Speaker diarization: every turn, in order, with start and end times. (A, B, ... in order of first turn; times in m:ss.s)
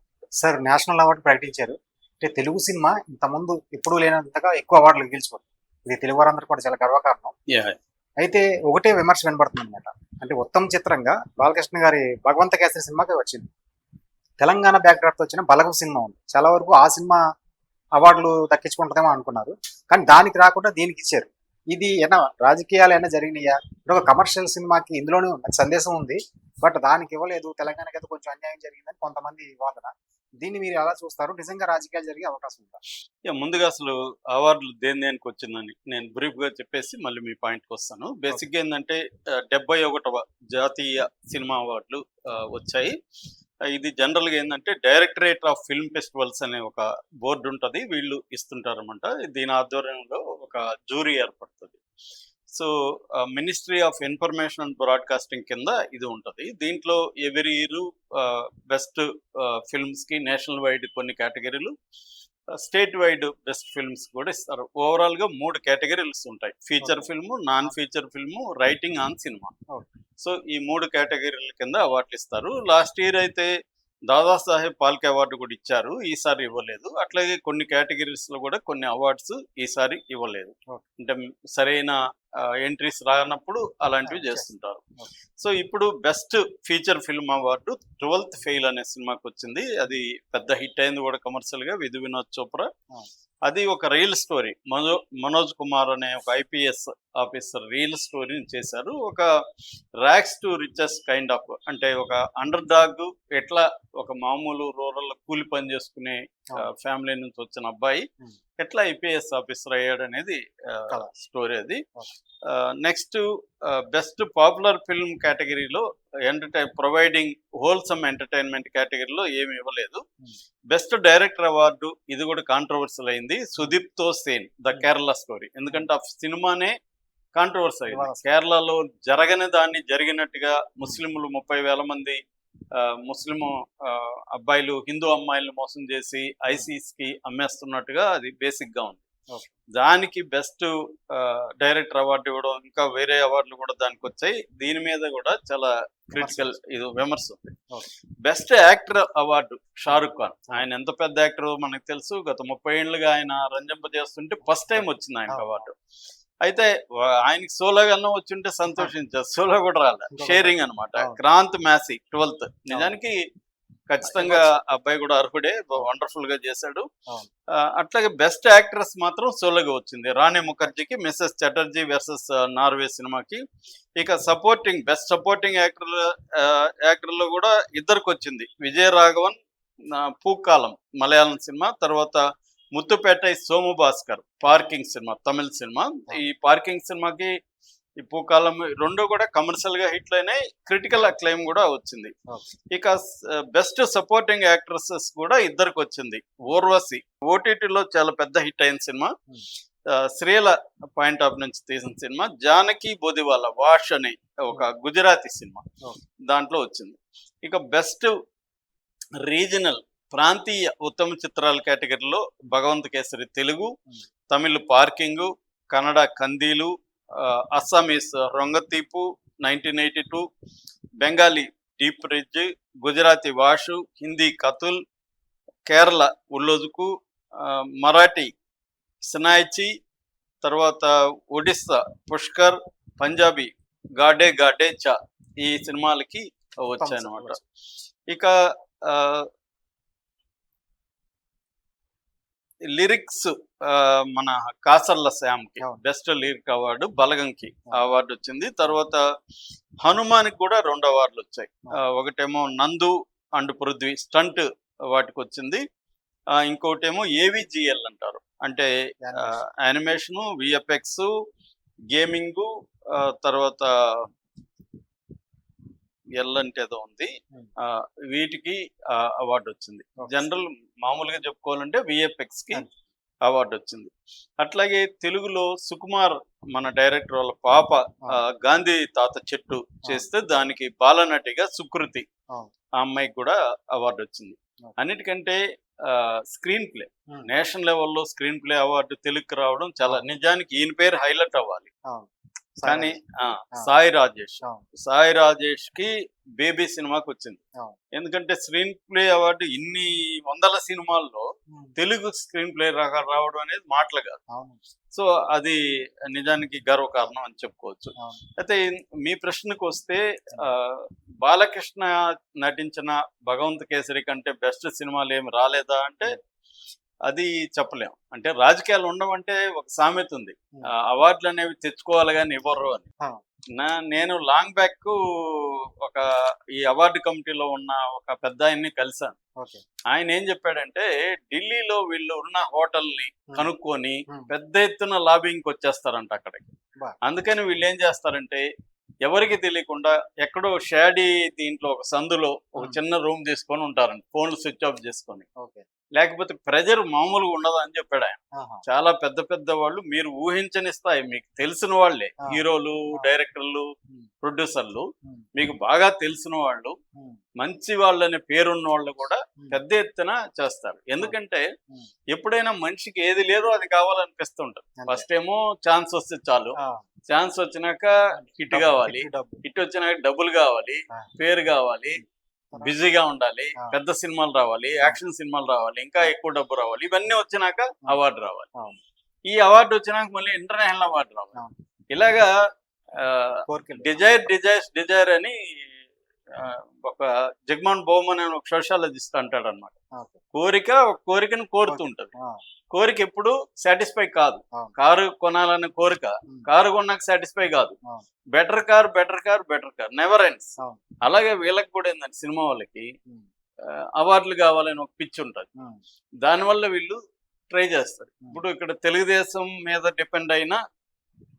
0:00.4-0:07.3 A
0:08.2-0:13.5 A
0:14.4-0:17.2 A
0:18.0-0:32.8 A
0:33.3-0:42.9 B
0:43.7-0:51.8 B
0:52.5-1:01.7 B
1:02.6-1:09.6 B
1:06.8-1:07.1 A
1:10.2-1:13.5 B
1:14.1-1:24.8 B
1:24.0-1:24.5 A
1:25.4-1:32.7 B
1:33.5-1:39.3 B
1:40.0-1:48.0 B
1:48.6-1:51.8 B
1:52.5-2:00.0 B
2:00.7-2:06.7 B
2:07.4-2:12.2 B
2:07.9-2:08.2 A
2:12.8-2:19.0 B
2:19.8-2:27.5 B
2:26.2-2:26.6 A
2:28.2-2:35.8 B
2:29.9-2:30.6 A
2:34.8-2:35.6 A
2:36.4-2:43.2 B
2:40.1-2:41.2 A
2:42.7-2:43.0 A
2:43.9-2:46.9 B
2:44.0-2:44.6 A
2:47.8-2:53.4 B
2:54.0-2:59.4 B
2:59.9-3:02.2 B
3:02.7-3:07.3 B
3:08.0-3:12.1 B
3:12.7-3:19.1 B
3:20.0-3:25.6 B
3:26.3-3:28.1 B
3:29.2-3:33.7 B
3:34.3-3:40.3 B
3:41.0-3:44.8 B
3:45.7-3:48.3 B
3:49.0-3:49.7 B
3:50.4-3:57.4 B
3:56.8-3:57.4 A
3:58.9-3:59.3 B
4:02.8-4:09.0 B
4:09.8-4:15.6 B
4:16.4-4:21.1 B
4:19.0-4:19.4 A
4:21.9-4:24.1 B
4:26.2-4:27.1 B
4:27.6-4:32.6 B
4:30.0-4:30.3 A
4:33.2-4:33.9 B
4:34.4-4:42.1 B
4:42.8-4:51.7 B
4:52.6-4:53.0 A
4:52.6-4:57.4 B
4:58.0-5:01.3 B
5:01.8-5:04.2 B
5:04.9-5:05.6 B
5:06.1-5:16.2 B
5:17.1-5:22.9 B
5:23.6-5:26.0 B
5:26.6-5:29.2 B
5:29.9-5:38.5 B
5:39.0-5:45.2 B
5:45.4-5:45.6 A
5:46.0-5:53.7 B
5:52.2-5:53.1 A
5:54.2-5:56.8 B
5:57.4-6:01.4 B
6:02.1-6:06.6 B
6:04.8-6:05.1 A
6:07.1-6:12.0 B
6:08.2-6:09.4 A
6:12.5-6:18.5 B
6:19.3-6:21.4 B
6:21.9-6:22.3 B
6:23.0-6:25.7 B
6:23.5-6:24.3 A
6:26.4-6:29.7 B
6:30.3-6:32.1 B
6:31.7-6:32.4 A
6:32.7-6:37.8 B
6:38.3-6:42.9 B
6:44.0-6:45.5 B
6:46.2-6:47.0 B
6:47.5-6:50.6 B